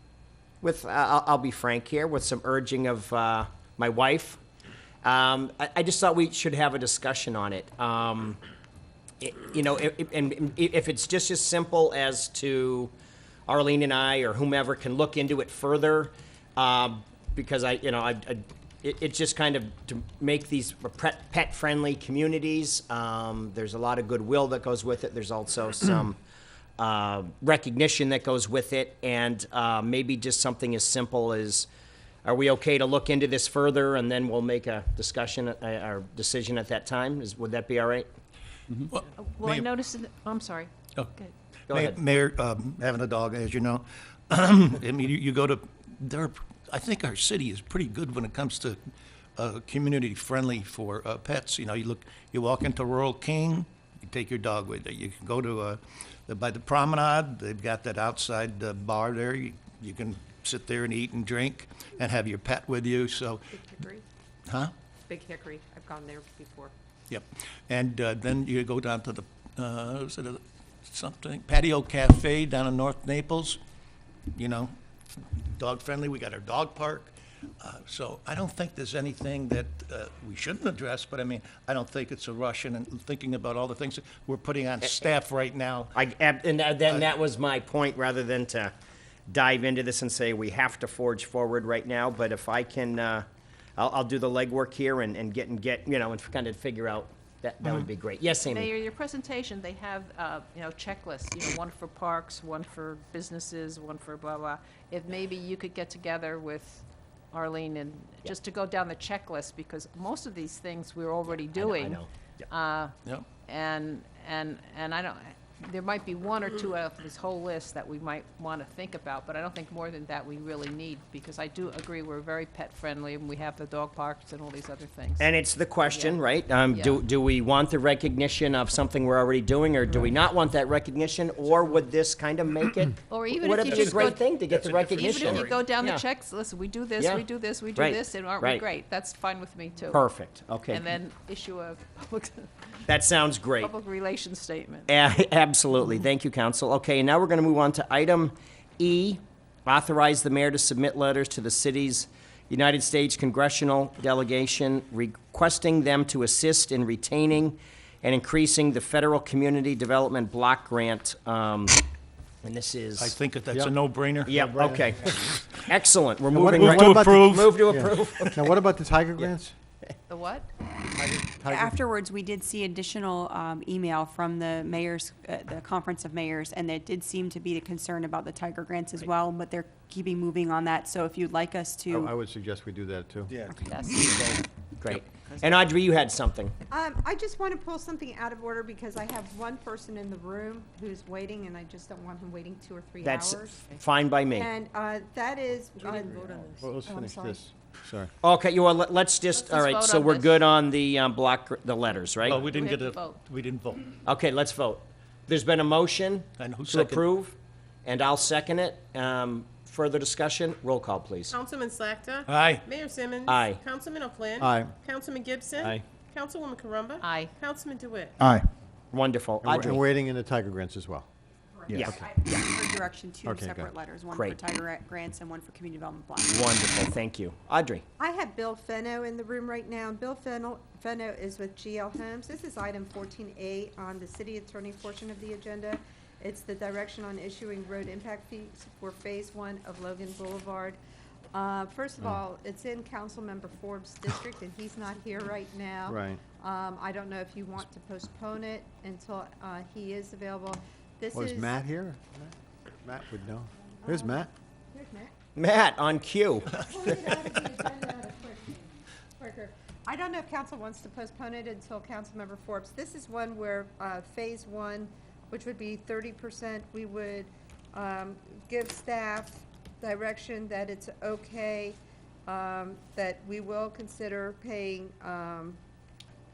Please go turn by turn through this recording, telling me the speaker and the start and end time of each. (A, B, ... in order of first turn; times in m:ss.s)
0:00.6-0:04.4 A
0:05.0-0:08.4 A
0:09.2-0:12.9 A
0:13.5-0:26.2 A
0:26.8-0:31.7 A
0:32.2-0:38.1 A
0:38.9-0:39.7 B
0:39.2-0:41.3 C
0:41.7-0:42.0 A
0:41.7-0:48.8 B
0:49.4-1:03.6 B
1:03.6-1:04.0 D
1:04.5-1:04.7 B
1:05.1-1:06.7 D
1:07.1-1:13.6 B
1:14.3-1:25.9 B
1:26.0-1:28.7 A
1:29.3-1:33.3 A
1:33.8-1:38.7 A
1:38.4-1:52.9 C
1:51.3-1:52.1 A
1:53.4-2:05.3 C
2:05.2-2:16.0 A
2:05.9-2:07.0 C
2:13.1-2:14.3 C
2:14.7-2:15.4 B
2:14.9-2:20.0 C
2:17.0-2:17.2 A
2:17.7-2:18.6 A
2:19.9-2:20.8 A
2:20.7-2:22.5 C
2:22.9-2:23.7 A
2:23.6-2:24.9 C
2:24.9-2:41.8 A
2:42.4-2:43.1 A
2:43.0-2:44.9 B
2:44.2-2:48.5 A
2:44.4-2:44.9 E
2:46.3-2:49.5 E
2:46.5-2:47.7 B
2:50.1-2:50.5 C
2:50.9-2:51.8 E
2:51.4-3:02.1 F
3:01.9-3:03.4 E
3:03.4-3:03.9 F
3:03.6-3:04.4 C
3:04.8-3:06.6 A
3:05.0-3:05.6 C
3:06.7-3:13.6 D
3:13.0-3:14.5 A
3:14.4-3:17.4 D
3:15.9-3:18.1 E
3:18.2-3:22.5 A
3:19.3-3:20.4 C
3:22.2-3:23.9 B
3:22.4-3:23.2 C
3:24.0-3:31.4 A
3:26.4-3:27.0 B
3:31.3-3:38.1 G
3:32.2-3:32.6 B
3:33.2-3:33.6 A
3:34.4-3:34.8 E
3:35.6-3:35.8 E
3:37.0-3:37.3 C
3:38.2-3:38.5 B
3:38.9-3:39.8 A
3:39.4-3:41.1 E
3:41.6-3:46.5 F
3:41.7-3:42.0 A
3:43.2-3:43.7 E
3:44.1-3:44.4 A
3:46.3-3:47.8 A
3:48.0-4:00.8 D
4:01.3-4:11.6 D
4:05.9-4:06.2 E
4:11.1-4:14.3 E
4:13.8-4:14.2 D
4:14.7-4:15.1 D
4:15.4-4:16.7 A
4:16.6-4:35.6 D